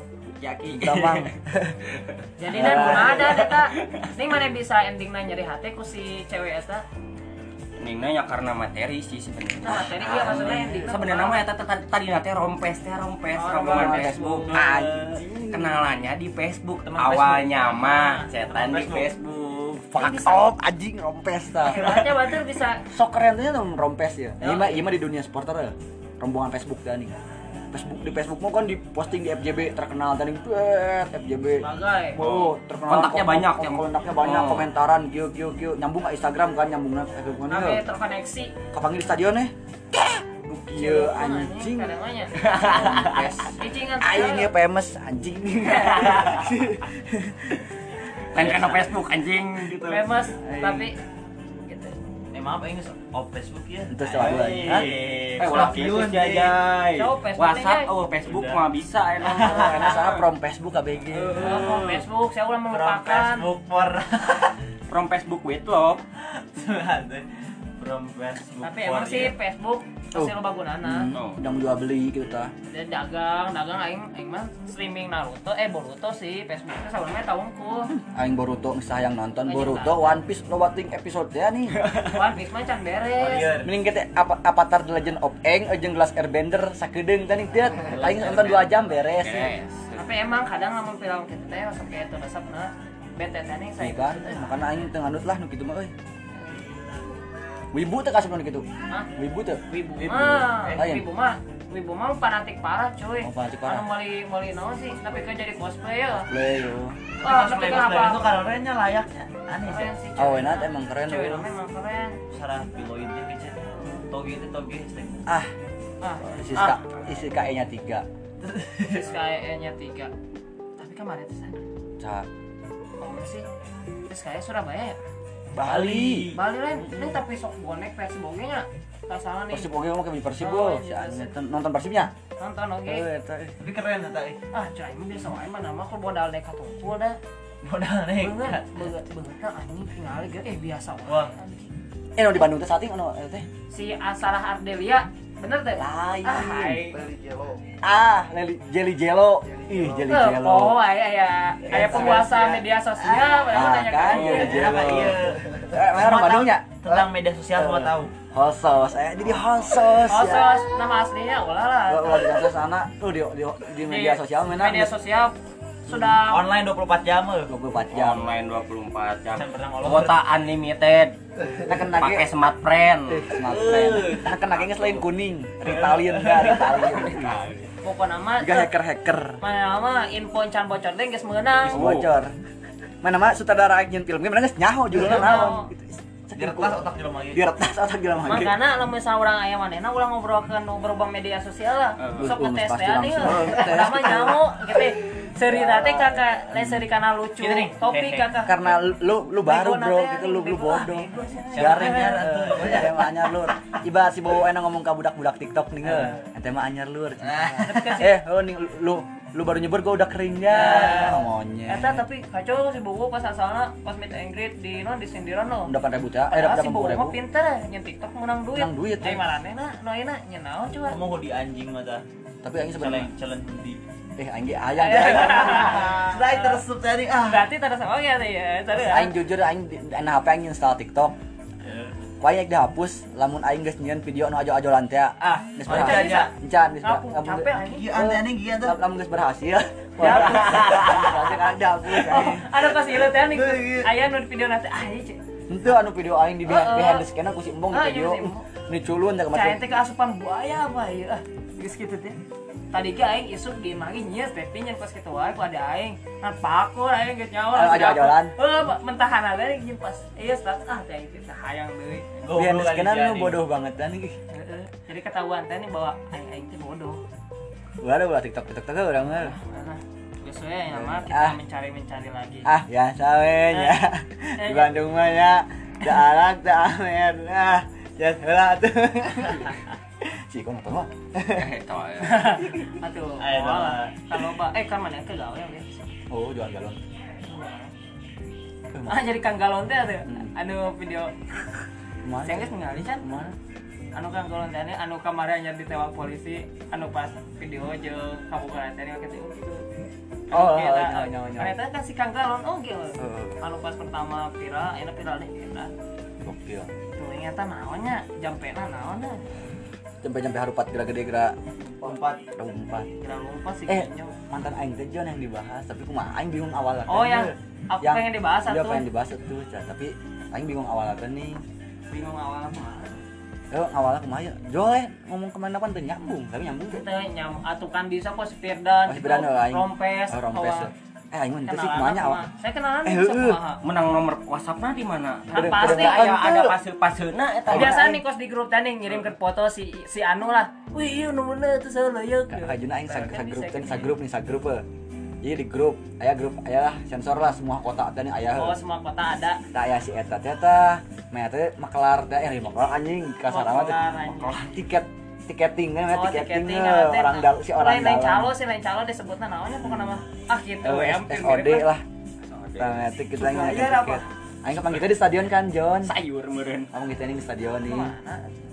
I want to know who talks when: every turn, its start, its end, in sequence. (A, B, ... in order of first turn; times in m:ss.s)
0:00.4-0:01.3 A
0:00.7-0:01.8 B
0:01.9-0:04.1 A
0:02.4-0:06.8 C
0:02.5-0:03.4 B
0:07.8-0:19.9 A
0:09.6-0:11.4 C
0:10.1-0:10.9 B
0:13.3-0:14.5 C
0:13.7-0:15.9 B
0:16.9-0:17.4 D
0:17.2-0:18.3 C
0:18.4-0:19.1 D
0:19.9-0:22.0 B
0:20.0-0:20.4 C
0:21.6-0:22.9 C
0:22.9-0:27.2 B
0:24.4-0:24.9 C
0:27.7-0:37.8 B
0:31.6-0:32.2 C
0:32.2-0:34.6 A
0:37.5-0:38.5 C
0:38.7-0:41.9 B
0:40.7-0:42.3 C
0:42.4-0:43.5 A
0:42.5-0:47.6 B
0:43.5-0:44.5 C
0:48.3-0:50.0 A
0:48.3-0:49.0 D
0:49.8-0:51.0 C
0:50.4-0:50.9 B
0:51.7-0:51.9 C
0:52.3-0:56.6 D
0:53.9-0:54.9 B
0:54.2-1:00.1 A
0:56.9-0:57.9 C
0:58.2-0:58.6 D
0:59.2-1:00.1 D
0:59.5-0:59.7 C
0:59.5-1:01.8 B
1:01.1-1:02.0 A
1:01.3-1:03.5 C
1:02.7-1:04.6 D
1:04.9-1:06.0 A
1:06.2-1:07.3 D
1:07.8-1:09.3 D
1:08.6-1:11.1 C
1:10.1-1:12.5 B
1:11.1-1:11.4 A
1:12.7-1:17.9 C
1:18.0-1:21.8 B
1:19.4-1:20.2 C
1:22.1-1:23.6 C
1:23.2-1:23.7 D
1:23.6-1:29.5 B
1:27.8-1:28.6 D
1:27.8-1:30.0 A
1:30.0-1:34.6 C
1:33.8-1:35.9 B
1:36.4-1:36.6 C
1:37.7-1:41.0 B
1:39.7-1:46.3 C
1:40.0-1:40.8 D
1:43.2-1:43.8 B
1:46.3-1:47.0 B
1:47.2-1:50.0 D
1:47.2-1:48.4 C
1:49.6-1:52.2 C
1:50.2-1:51.5 B
1:52.3-1:55.2 D
1:53.7-1:54.0 C
1:56.0-1:56.8 C
1:56.2-1:58.0 B
1:58.4-1:59.2 D
1:58.9-2:00.1 C
2:00.8-2:01.6 C
2:02.0-2:02.3 B
2:03.0-2:03.4 C
2:04.1-2:05.0 C
2:05.5-2:06.4 D
2:05.6-2:06.3 B
2:06.3-2:09.7 C
2:09.5-2:12.1 B
2:10.4-2:11.3 C
2:12.4-2:13.0 C
2:12.8-2:13.6 B
2:13.6-2:14.4 D
2:14.5-2:17.2 C
2:17.6-2:18.7 D
2:18.2-2:21.7 C
2:21.0-2:21.3 D
2:22.2-2:23.5 B
2:23.7-2:27.0 C
2:25.8-2:26.8 B
2:26.9-2:27.6 D
2:27.8-2:30.8 B
2:30.0-2:34.7 C
2:31.6-2:33.4 D
2:31.8-2:32.1 B
2:33.4-2:40.6 B
2:34.0-2:38.1 D
2:34.1-2:34.5 A
2:40.1-2:42.3 C
2:41.9-2:44.9 B
2:43.9-2:45.4 C
2:45.9-2:46.4 C
2:46.1-2:47.5 D
2:47.5-2:48.3 B
2:47.9-2:51.2 A
2:49.3-2:50.2 D
2:51.6-2:52.3 B
2:51.7-2:55.1 A
2:53.1-2:57.4 B
2:55.7-2:57.7 A
2:57.8-2:58.7 C
2:58.4-2:59.4 B
2:59.4-3:01.9 C
3:01.6-3:02.3 B
3:01.7-3:02.1 A
3:03.0-3:08.6 B
3:05.0-3:05.7 C
3:05.0-3:05.5 D
3:06.3-3:07.5 D
3:08.2-3:18.7 C
3:12.0-3:12.4 A
3:12.2-3:14.5 B
3:15.5-3:16.1 D
3:16.5-3:16.9 B
3:17.4-3:18.3 D
3:18.4-3:32.0 B
3:19.4-3:22.2 C
3:21.5-3:23.2 D
3:25.8-3:26.2 D
3:27.2-3:27.9 D
3:27.6-3:28.1 C
3:30.5-3:35.7 C
3:30.5-3:31.2 D
3:35.6-3:37.2 B
3:36.3-3:41.0 C
3:38.5-3:39.3 B
3:40.9-3:42.0 D
3:42.4-3:43.1 B
3:42.7-3:43.8 D
3:44.2-3:45.6 B
3:44.8-3:46.6 C
3:44.8-3:47.5 D
3:47.2-3:49.1 C
3:48.7-3:51.1 B
3:51.6-3:51.9 D
3:52.2-4:02.6 B
3:55.4-3:56.3 D
3:55.6-3:58.0 C
3:57.6-3:58.8 D
4:00.0-4:01.1 C
4:00.0-4:01.0 D
4:01.9-4:05.2 C
4:02.8-4:03.9 D
4:05.5-4:09.6 B
4:06.5-4:07.0 C
4:07.7-4:08.5 C
4:09.3-4:12.2 C
4:12.7-4:22.0 C
4:17.5-4:18.3 B
4:22.2-4:23.4 D
4:22.3-4:24.2 B
4:24.3-4:27.0 C
4:27.8-4:29.4 B
4:29.1-4:32.5 C
4:30.7-4:31.4 B
4:32.4-4:41.5 B
4:33.5-4:33.8 C
4:34.4-4:34.7 C
4:41.3-4:42.4 A
4:42.0-4:45.9 C
4:43.2-4:43.9 D
4:46.1-4:46.8 B
4:47.3-4:47.7 C
4:48.7-4:49.0 B
4:48.8-4:51.3 C
4:52.0-4:53.3 B
4:52.2-4:53.2 C
4:53.9-4:59.6 C
5:00.3-5:05.7 C
5:00.3-5:01.5 B
5:03.0-5:03.4 B
5:06.2-5:06.7 B
5:07.0-5:09.2 C
5:10.0-5:11.4 B
5:11.8-5:12.2 D
5:12.4-5:12.9 B
5:13.0-5:14.2 C
5:13.7-5:21.4 B
5:16.9-5:18.8 C
5:21.9-5:23.0 C
5:23.5-5:26.8 B
5:26.7-5:30.7 C
5:28.9-5:32.2 B
5:31.4-5:33.6 C
5:32.8-5:33.4 B
5:33.6-5:37.8 A
5:35.3-5:36.1 C
5:35.3-5:36.6 B
5:37.4-5:38.0 B
5:37.5-5:43.9 C
5:42.3-5:44.6 B
5:45.2-5:48.6 B
5:48.3-5:49.4 C
5:49.5-5:58.3 B
5:53.3-5:54.4 C
5:55.9-6:01.7 C
5:59.6-6:00.0 B
6:00.6-6:01.8 B
6:02.2-6:02.9 A
6:02.6-6:05.9 B
6:03.2-6:04.0 C
6:04.5-6:04.8 A
6:05.8-6:06.7 A
6:06.7-6:07.9 B
6:07.6-6:08.3 C